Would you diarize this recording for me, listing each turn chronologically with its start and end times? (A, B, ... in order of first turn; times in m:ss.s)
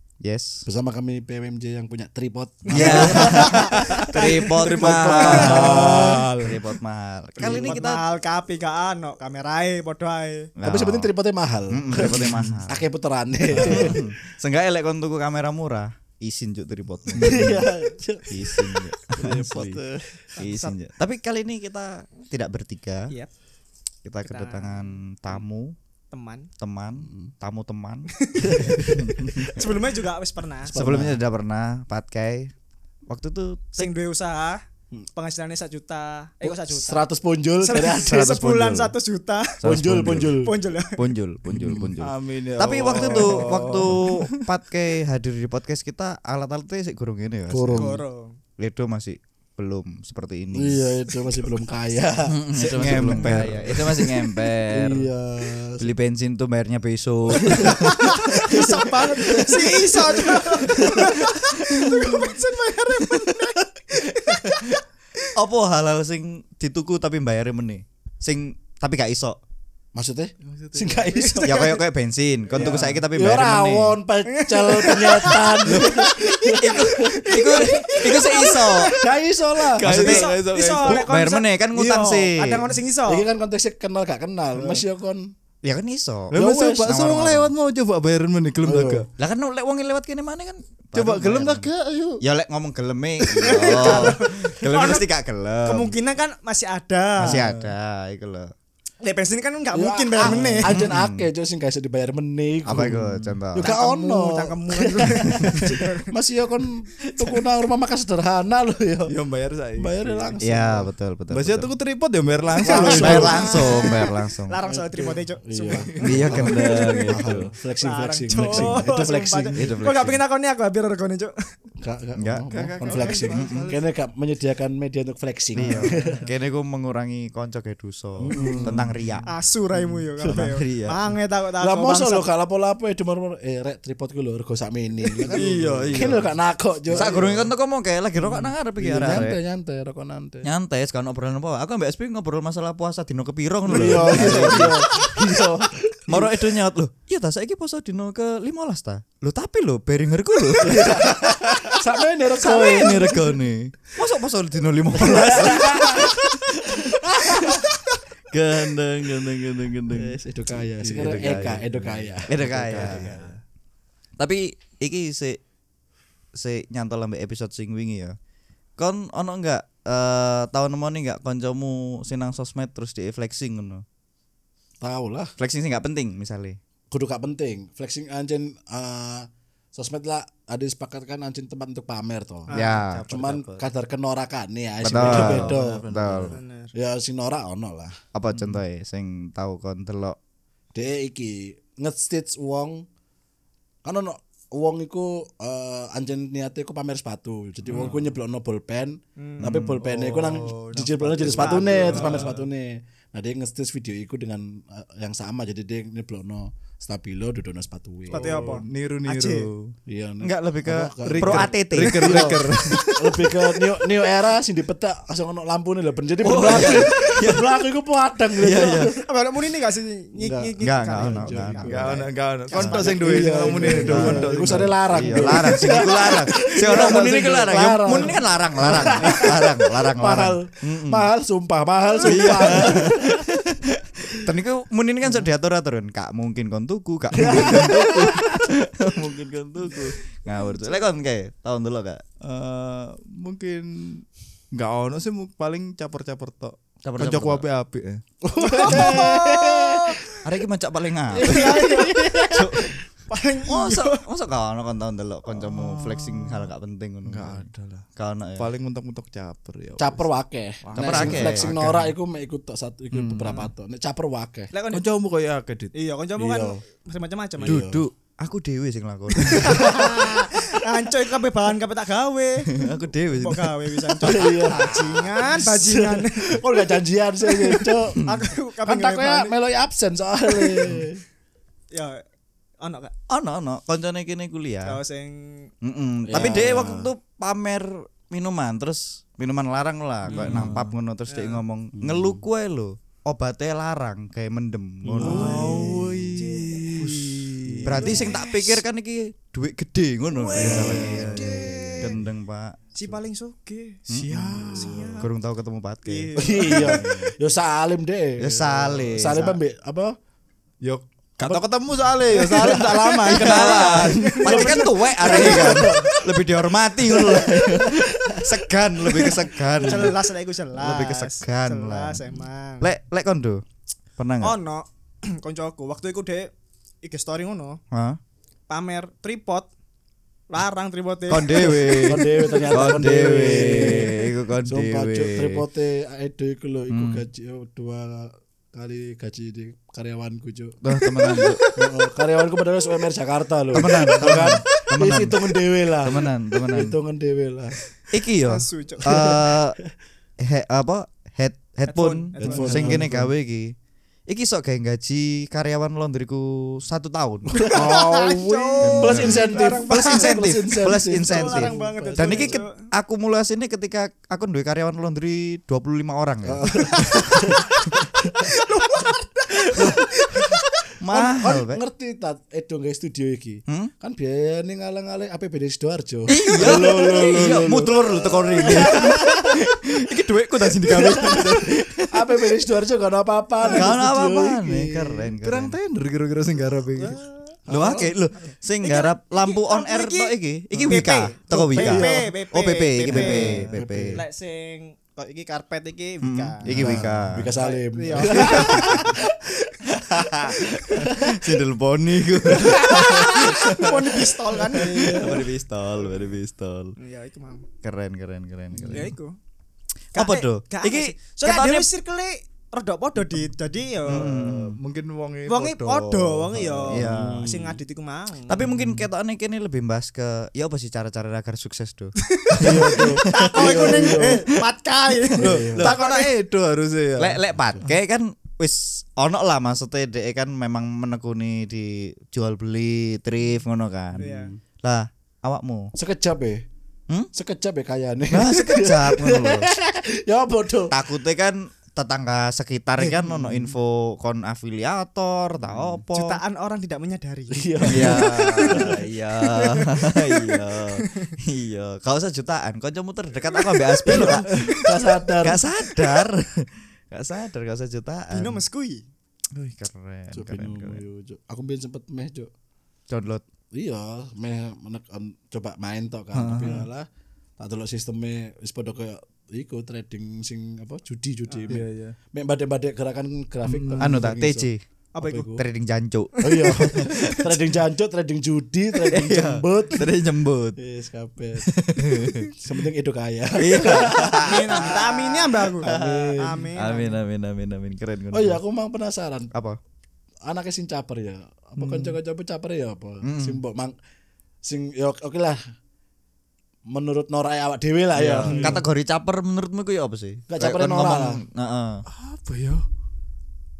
0:00.2-0:00.6 A
0:00.6-0:06.6 B
0:02.7-0:04.6 C
0:02.7-0:08.0 A
0:04.3-0:06.6 D
0:05.2-0:06.2 C
0:07.4-0:07.8 B
0:07.4-0:10.5 C
0:10.6-0:11.1 A
0:10.6-0:14.1 B
0:11.7-0:12.9 A
0:12.0-0:12.6 D
0:13.5-0:14.0 D
0:13.6-0:17.7 A
0:17.1-0:17.5 D
0:17.2-0:20.1 B
0:18.3-0:19.6 A
0:19.2-0:19.8 D
0:20.2-0:20.8 C
0:20.4-0:23.1 A
0:24.0-0:25.8 A
0:24.2-0:25.0 C
0:26.1-0:26.5 C
0:26.6-0:29.6 A
0:27.0-0:27.3 B
0:28.2-0:30.7 C
0:28.4-0:29.6 B
0:30.6-0:31.2 B
0:30.7-0:32.5 A
0:33.1-0:33.9 A
0:33.8-0:34.6 C
0:35.1-0:37.1 C
0:36.4-0:38.9 B
0:37.6-0:41.0 C
0:38.1-0:38.8 A
0:39.6-0:47.9 A
0:39.6-0:40.5 B
0:41.5-0:41.9 B
0:42.0-0:44.4 D
0:42.9-0:43.4 B
0:47.5-0:48.0 B
0:47.7-0:48.4 C
0:48.6-0:50.9 A
0:50.5-0:55.9 B
0:52.3-0:55.1 A
0:52.6-0:53.8 D
0:55.8-0:58.7 A
0:57.4-1:01.2 B
0:57.5-1:04.8 C
1:00.8-1:02.2 A
1:05.4-1:09.4 A
1:09.9-1:11.6 B
1:10.4-1:11.1 D
1:11.1-1:11.8 C
1:11.4-1:14.0 A
1:12.5-1:18.3 B
1:14.3-1:19.0 C
1:15.7-1:19.0 A
1:18.8-1:19.9 B
1:19.8-1:21.0 D
1:19.8-1:22.7 A
1:19.9-1:23.2 C
1:23.1-1:25.3 B
1:24.6-1:24.8 D
1:25.6-1:27.5 A
1:26.3-1:29.1 D
1:26.3-1:26.9 B
1:28.6-1:29.1 B
1:29.2-1:31.7 A
1:30.9-1:32.2 D
1:32.2-1:35.9 A
1:33.3-1:35.0 C
1:33.8-1:34.1 B
1:35.6-1:37.4 C
1:37.2-1:38.5 A
1:37.2-1:37.7 D
1:39.0-1:40.8 C
1:39.7-1:49.1 B
1:40.7-1:41.3 A
1:42.6-1:43.7 A
1:43.6-1:46.1 C
1:49.1-1:50.4 D
1:49.8-1:50.9 B
1:50.4-1:51.7 A
1:51.3-1:53.6 D
1:52.6-1:57.1 C
1:52.6-1:53.5 B
1:52.9-1:54.6 A
1:54.7-1:59.7 B
1:55.8-1:56.4 D
1:56.0-1:57.5 A
1:57.8-2:01.3 C
1:58.4-1:58.9 A
1:59.5-2:00.2 A
2:01.8-2:06.2 B
2:02.2-2:02.4 A
2:02.5-2:03.8 D
2:03.3-2:03.7 A
2:05.5-2:11.0 A
2:05.6-2:06.3 D
2:08.2-2:08.8 B
2:08.3-2:09.2 D
2:09.2-2:12.3 C
2:11.6-2:17.5 B
2:15.2-2:16.3 D
2:15.3-2:16.2 A
2:16.9-2:17.4 D
2:16.9-2:19.4 A
2:18.2-2:20.5 B
2:20.4-2:25.0 A
2:23.6-2:26.3 B
2:23.7-2:24.7 D
2:26.1-2:31.8 A
2:30.6-2:33.3 B
2:32.3-2:37.6 A
2:34.9-2:37.7 B
2:38.3-2:40.2 A
2:39.9-2:43.2 B
2:40.8-2:43.4 D
2:40.9-2:43.3 A
2:44.2-2:45.4 A
2:46.3-2:48.2 A
2:48.8-2:53.8 A
2:54.8-2:55.3 B
2:55.4-2:56.6 A
2:56.9-3:08.0 B
3:02.5-3:03.6 C
3:02.5-3:03.3 A
3:04.8-3:06.4 A
3:05.0-3:05.7 D
3:06.3-3:06.7 C
3:08.1-3:10.2 A
3:10.7-3:12.8 B
3:13.8-3:28.6 B
3:17.7-3:18.0 D
3:19.2-3:19.5 C
3:19.4-3:19.8 A
3:19.8-3:22.5 D
3:21.2-3:22.3 C
3:28.1-3:29.5 C
3:28.1-3:29.7 D
3:29.9-3:39.0 B
3:30.2-3:33.4 A
3:31.0-3:32.8 D
3:36.2-3:37.6 A
3:38.4-3:38.9 A
3:39.0-3:43.8 C
3:40.2-3:42.0 B
3:40.6-3:41.9 A
3:41.6-3:45.5 D
3:42.5-3:42.8 A
3:42.8-3:53.3 B
3:43.9-3:51.1 A
3:52.0-4:02.0 A
3:57.1-3:58.4 B
3:57.2-3:58.2 D
4:02.2-4:08.0 D
4:06.8-4:07.4 A
4:08.3-4:10.0 B
4:08.3-4:10.2 C
4:08.7-4:09.1 A
4:10.2-4:11.7 A
4:11.1-4:12.4 B
4:11.2-4:14.0 C
4:12.3-4:12.6 A
4:13.5-4:18.5 A
4:15.3-4:16.5 D
4:17.0-4:17.8 D
4:18.4-4:20.1 D
4:19.8-4:24.5 B
4:20.6-4:21.8 D
4:20.7-4:21.9 A
4:22.9-4:23.3 A
4:23.2-4:23.5 C
4:24.5-4:24.8 C
4:24.7-4:25.7 D
4:25.7-4:27.6 C
4:26.2-4:26.6 B
4:27.4-4:27.8 B
4:27.4-4:29.9 A
4:29.2-4:32.6 C
4:32.5-4:34.8 A
4:33.2-4:36.4 C
4:34.0-4:38.1 B
4:37.5-4:39.3 C
4:38.6-4:41.0 B
4:41.7-4:42.0 C
4:42.6-4:42.9 C
4:43.1-4:44.8 A
4:44.6-4:45.5 C
4:45.6-4:55.7 A
4:46.0-4:46.9 B
4:50.0-4:50.5 B
4:50.1-4:50.8 D
4:51.1-4:51.4 C
4:51.7-4:52.2 B
4:54.8-4:55.9 B
4:55.0-4:57.8 D
4:55.0-4:58.6 C
4:57.5-4:58.0 B
4:57.6-5:02.9 A
5:00.1-5:01.9 C
5:00.3-5:01.5 D
5:00.5-5:01.8 B
5:02.7-5:05.1 C
5:03.9-5:06.7 A
5:04.0-5:04.9 D
5:05.8-5:07.1 C
5:06.2-5:10.0 B
5:08.2-5:09.4 A
5:10.6-5:14.2 D
5:12.1-5:16.1 C
5:12.3-5:20.0 A
5:13.8-5:15.8 B
5:16.8-5:17.4 C
5:16.9-5:17.3 B
5:18.9-5:22.7 C
5:19.6-5:19.9 B
5:20.6-5:22.0 A
5:22.6-5:23.4 A
5:24.0-5:24.4 A
5:24.2-5:26.3 C
5:26.8-5:27.6 C
5:27.7-5:28.0 A
5:28.5-5:29.5 C
5:30.3-5:32.7 C
5:31.1-5:35.4 A
5:31.8-5:40.6 B
5:36.7-5:37.0 A
5:40.6-5:41.4 A
5:40.8-5:41.8 C
5:41.6-5:47.6 B
5:43.5-5:45.2 A
5:43.6-5:43.9 C
5:45.8-5:46.7 A
5:47.9-5:49.6 A
5:48.2-5:49.2 C
5:48.9-5:49.3 B
5:50.2-5:53.5 A
5:51.6-5:52.8 C
5:52.2-5:53.1 B
5:52.5-5:52.8 D
5:54.1-5:57.8 A
5:57.3-5:58.1 B
5:57.5-6:02.7 C
5:57.8-5:58.5 D
5:58.6-6:07.3 A
5:58.6-6:02.4 B
6:06.2-6:07.4 B
6:06.5-6:10.6 C
6:09.5-6:09.8 B
6:10.8-6:11.6 A
6:10.9-6:19.0 B
6:16.1-6:22.2 A
6:16.4-6:17.8 D
6:18.4-6:19.4 C
6:20.8-6:25.1 B
6:20.9-6:21.5 D
6:23.4-6:25.6 A
6:25.2-6:27.0 D
6:26.8-6:27.1 C
6:27.5-6:27.9 B
6:27.5-6:34.0 A
6:28.6-6:33.3 C
6:30.5-6:30.8 D
6:31.4-6:31.9 B
6:32.9-6:34.0 B
6:33.1-6:33.5 D
6:33.9-6:36.5 C
6:36.0-6:37.3 A
6:36.4-6:39.0 B
6:37.3-6:39.1 C
6:38.0-6:39.0 A
6:39.7-6:44.0 A
6:40.1-6:40.8 C
6:42.3-6:45.2 C
6:44.6-6:46.7 A
6:44.8-6:45.2 B
6:46.8-6:47.4 C
6:47.6-6:48.9 A
6:48.7-6:49.2 C
6:49.9-6:54.2 C
6:49.9-6:51.7 A
6:53.9-6:54.6 A
6:53.9-6:56.7 D
6:55.3-6:58.4 C
6:56.7-6:57.2 A
6:56.8-6:57.6 B
6:58.3-7:04.2 A
6:58.4-6:58.9 D
7:02.1-7:06.0 C
7:02.4-7:04.4 B
7:05.2-7:05.8 B
7:05.2-7:07.7 D
7:05.6-7:06.1 A
7:07.0-7:14.1 A
7:13.9-7:14.3 C
7:14.0-7:14.4 B
7:14.6-7:15.7 A
7:15.7-7:16.4 B
7:17.1-7:20.8 B
7:18.1-7:19.5 A
7:20.7-7:26.2 A
7:22.8-7:23.5 B
7:25.9-7:31.1 C
7:27.3-7:28.8 B
7:27.7-7:38.4 A
7:33.7-7:34.2 C
7:33.8-7:35.4 B
7:38.1-7:38.8 C
7:39.3-7:40.8 A
7:40.1-7:42.3 B
7:42.9-7:43.2 A
7:43.5-7:46.9 B
7:46.1-7:46.7 D
7:47.4-7:54.5 B
7:51.4-7:51.9 D
7:53.4-7:54.1 D
7:53.8-7:54.6 A
7:54.9-7:55.3 C
7:55.0-7:55.4 B
7:55.3-7:57.1 A
7:56.2-7:57.3 C
7:56.2-7:59.9 B
7:58.8-8:00.6 A
8:00.6-8:01.5 B
8:01.4-8:02.3 A
8:02.3-8:06.5 B
8:03.4-8:04.9 A
8:04.2-8:07.0 C
8:05.6-8:08.4 A
8:08.1-8:09.3 B
8:10.2-8:13.7 B
8:11.6-8:12.0 D
8:13.0-8:13.4 A
8:14.4-8:15.4 B
8:16.7-8:18.6 B
8:18.0-8:21.8 A
8:18.2-8:18.6 D
8:20.3-8:21.2 B
8:21.9-8:22.6 D